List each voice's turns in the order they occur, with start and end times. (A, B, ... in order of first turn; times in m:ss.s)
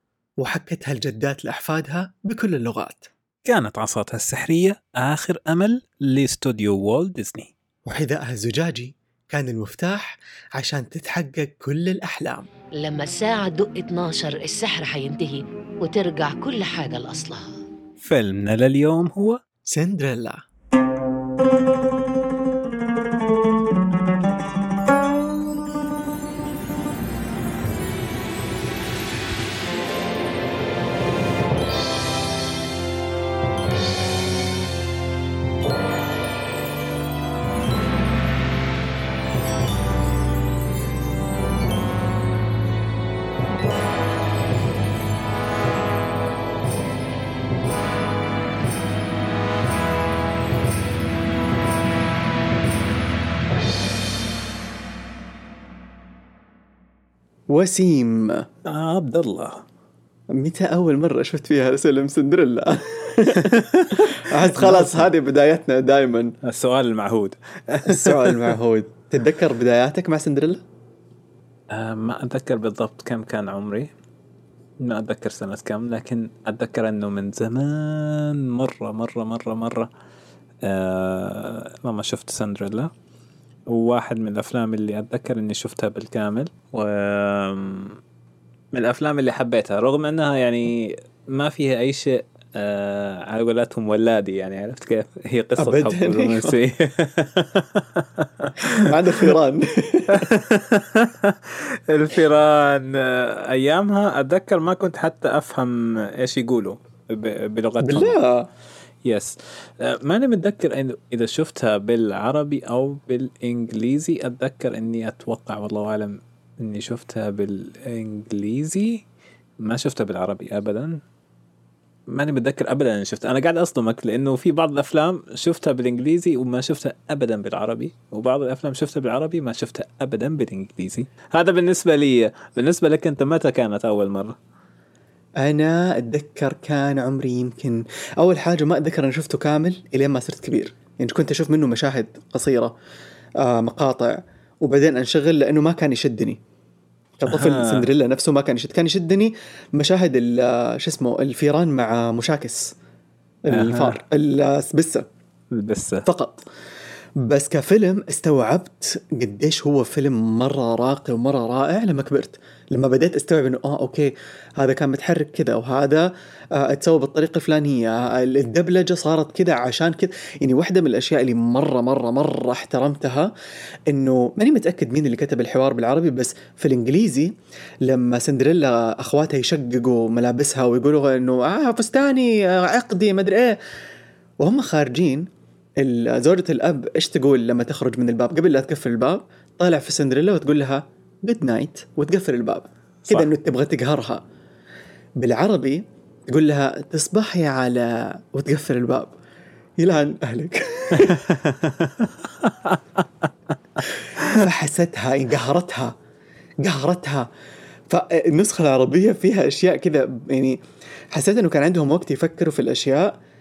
0:00.4-0:03.1 A
0:03.4-0:07.5 B
0:07.8-0:12.5 A
0:12.8-0:17.5 C
0:18.0-0:19.4 B
0:19.7-0:20.4 A
0:57.5-0:58.4 A
0:58.6-0:59.6 B
1:00.3-1:06.4 A
1:03.5-1:05.1 B
1:06.4-1:08.6 B
1:07.9-1:10.6 A
1:11.7-1:13.9 B
1:14.8-1:19.9 B
1:20.6-1:22.9 B
1:23.7-1:28.0 B
1:28.7-1:39.4 B
1:35.6-1:36.6 A
1:38.6-1:40.3 A
1:40.1-1:48.2 B
1:47.8-1:48.5 A
1:49.0-1:59.0 B
1:59.6-2:01.0 B
2:02.1-2:14.4 B
2:15.4-2:22.7 A
2:23.4-2:26.4 A
2:27.2-2:27.9 B
2:27.2-2:32.7 A
2:33.5-2:35.0 A
2:33.5-2:34.0 B
2:35.5-2:36.0 B
2:36.0-2:36.4 A
2:37.2-2:53.3 A
2:53.9-2:57.3 A
2:57.8-3:03.6 A
3:04.4-3:05.3 A
3:05.8-3:14.2 A
3:15.2-3:19.1 A
3:19.8-3:21.3 A
3:21.0-3:23.3 B
3:24.2-3:25.9 A
3:24.2-3:24.4 B
3:26.6-3:27.3 A
3:27.9-3:30.6 A
3:31.1-3:33.2 A